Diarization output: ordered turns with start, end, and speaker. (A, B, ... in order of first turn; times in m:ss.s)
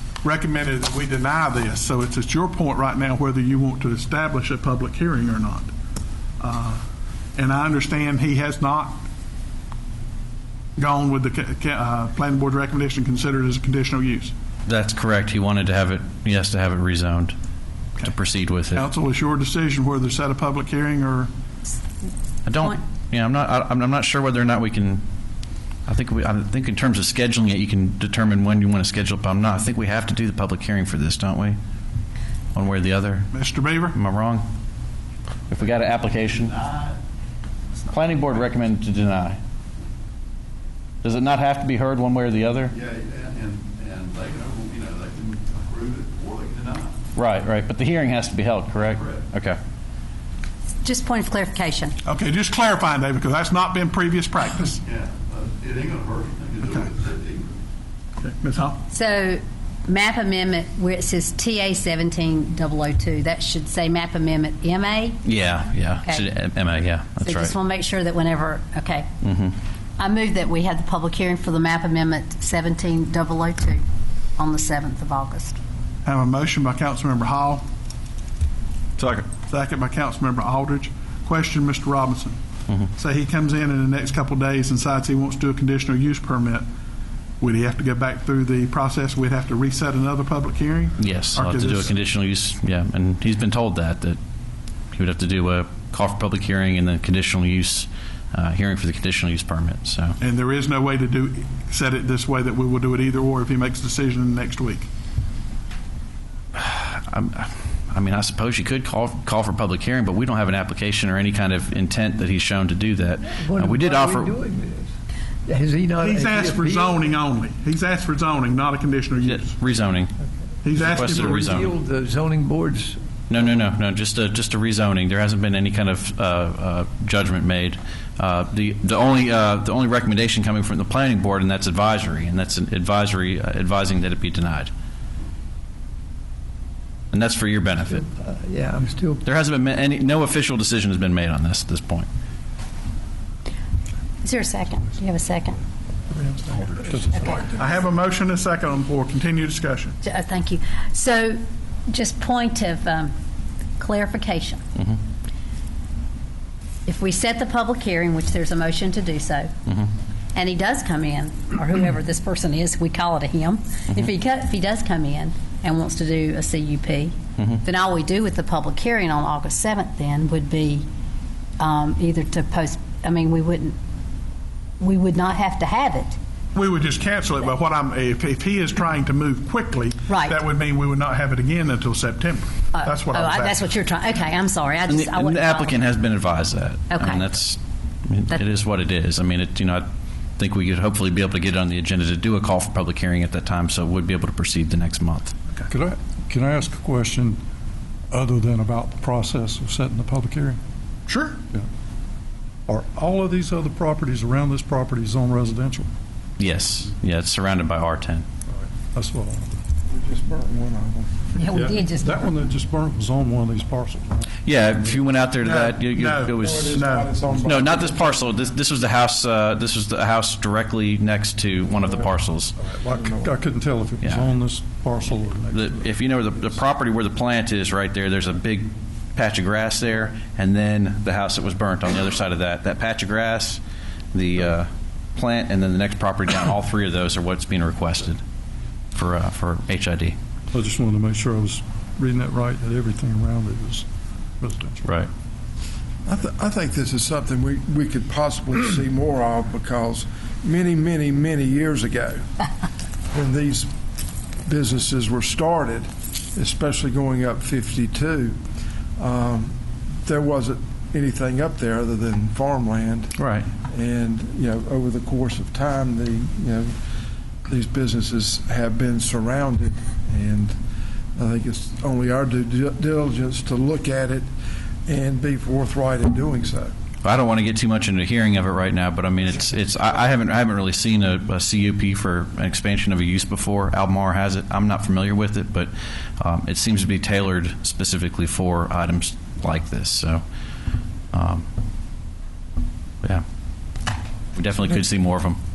0:00.2-0:05.7 A
0:06.4-0:06.8 A
0:07.4-0:09.0 A
0:10.8-0:14.3 A
0:14.6-0:17.3 B
0:18.0-0:18.8 B
0:18.7-0:21.3 A
0:22.4-0:25.0 B
0:25.8-0:31.6 B
0:32.5-0:34.4 B
0:33.3-0:34.0 A
0:35.5-0:36.6 B
0:37.9-0:39.4 B
0:41.0-0:42.7 B
0:42.8-0:46.9 C
0:47.1-0:49.6 B
0:50.8-0:52.0 D
0:52.0-0:54.8 A
0:54.9-0:57.4 C
0:58.2-0:58.8 A
0:58.8-1:05.2 D
1:05.2-1:07.5 B
1:07.2-1:09.1 D
1:09.2-1:09.6 B
1:10.0-1:13.8 D
1:14.4-1:15.6 D
1:16.0-1:17.6 A
1:19.0-1:19.2 B
1:19.4-1:22.4 A
1:22.9-1:26.6 A
1:27.4-1:31.9 A
1:31.0-1:34.2 B
1:34.9-1:40.2 B
1:40.2-1:44.9 A
1:46.5-1:54.4 B
1:53.3-1:54.9 E
1:55.4-1:56.9 E
1:56.0-1:59.6 A
1:59.2-2:00.1 B
2:00.6-2:01.6 A
2:00.7-2:01.7 B
2:01.0-2:03.0 E
2:03.3-2:14.7 B
2:17.1-2:18.0 B
2:18.0-2:19.2 E
2:19.2-2:22.1 B
2:24.2-2:25.6 D
2:26.2-2:27.4 F
2:27.1-2:27.4 D
2:27.4-2:30.0 A
2:30.0-2:33.1 D
2:33.8-2:34.6 D
2:36.8-2:39.5 D
2:40.3-2:50.8 D
2:51.6-2:53.8 D
2:54.8-2:56.2 D
2:56.5-3:03.6 A
3:00.1-3:00.4 D
3:02.7-3:05.8 D
3:04.9-3:15.3 B
3:06.9-3:07.2 D
3:15.7-3:17.4 F
3:18.1-3:20.6 F
3:21.1-3:21.4 A
3:22.7-3:25.9 F
3:26.4-3:28.2 B
3:28.7-3:29.5 F
3:29.9-3:31.2 G
3:31.4-3:32.2 D
3:31.5-3:34.3 F
3:34.4-3:36.8 B
3:35.4-3:37.1 A
3:36.4-3:38.2 G
3:37.4-3:42.5 B
3:42.6-3:45.9 F
3:42.9-3:43.4 G
3:44.0-3:44.3 B
3:45.5-3:53.6 B
3:54.1-3:58.2 B
3:58.9-4:00.2 B
4:00.5-4:03.8 F
4:04.4-4:05.0 F
4:06.0-4:12.2 G
4:13.1-4:13.7 G
4:14.4-4:18.4 G
4:19.0-4:23.1 G
4:23.2-4:23.5 B
4:23.7-4:26.7 G
4:27.5-4:30.6 G
4:31.2-4:34.3 G
4:34.8-4:36.7 G
4:37.0-4:50.2 B
4:51.1-4:51.4 B
4:54.4-4:55.4 B